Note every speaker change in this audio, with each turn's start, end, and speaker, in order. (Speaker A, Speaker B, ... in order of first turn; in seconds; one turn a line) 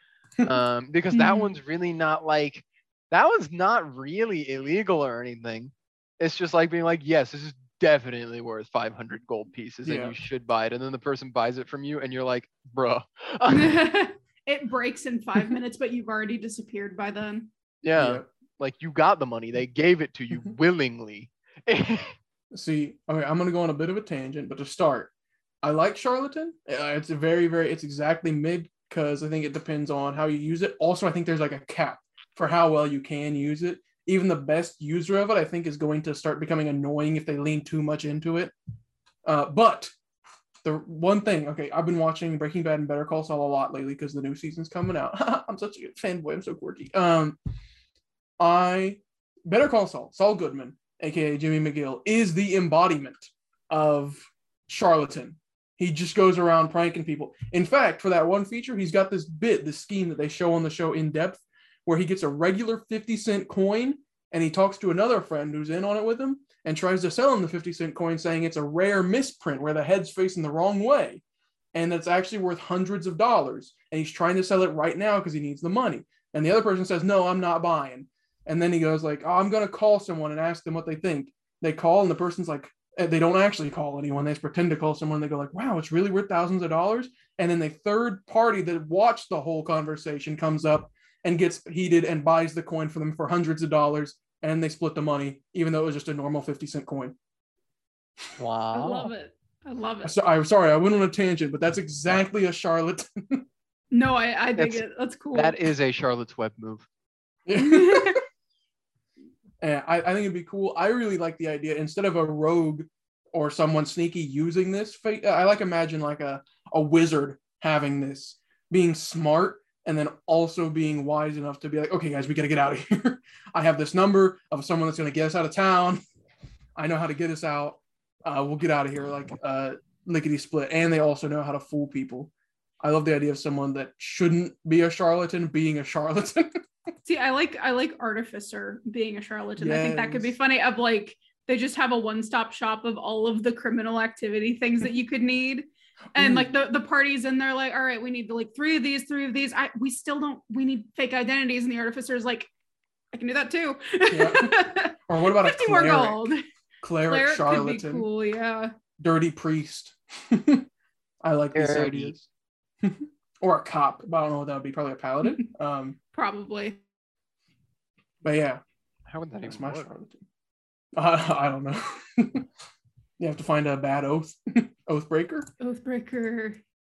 Speaker A: 0.5-13.9
Speaker B: 1.1-1.6
Speaker C: 9.8-10.1
Speaker B: 13.5-17.5
Speaker A: 17.8-22.1
Speaker C: 18.0-18.3
Speaker C: 22.5-25.1
Speaker C: 25.6-38.5
Speaker C: 39.2-39.9
Speaker C: 40.6-47.4
Speaker C: 48.4-71.2
Speaker C: 71.7-97.2
Speaker A: 98.4-99.1
Speaker B: 98.7-100.2
Speaker C: 100.0-103.5
Speaker B: 103.9-105.6
Speaker A: 104.6-104.8
Speaker A: 105.3-106.9
Speaker C: 107.5-108.2
Speaker B: 107.5-108.2
Speaker C: 109.6-126.0
Speaker C: 126.8-136.6
Speaker B: 137.1-152.5
Speaker C: 139.6-140.4
Speaker C: 146.2-146.5
Speaker B: 153.1-156.4
Speaker C: 154.1-158.1
Speaker B: 157.1-158.7
Speaker C: 159.0-160.7
Speaker C: 161.2-162.3
Speaker A: 161.6-162.1
Speaker C: 162.8-166.0
Speaker B: 166.1-166.8
Speaker C: 168.2-168.6
Speaker A: 169.1-169.9
Speaker C: 169.4-170.2
Speaker C: 171.0-172.5
Speaker C: 173.2-175.5
Speaker B: 175.6-176.6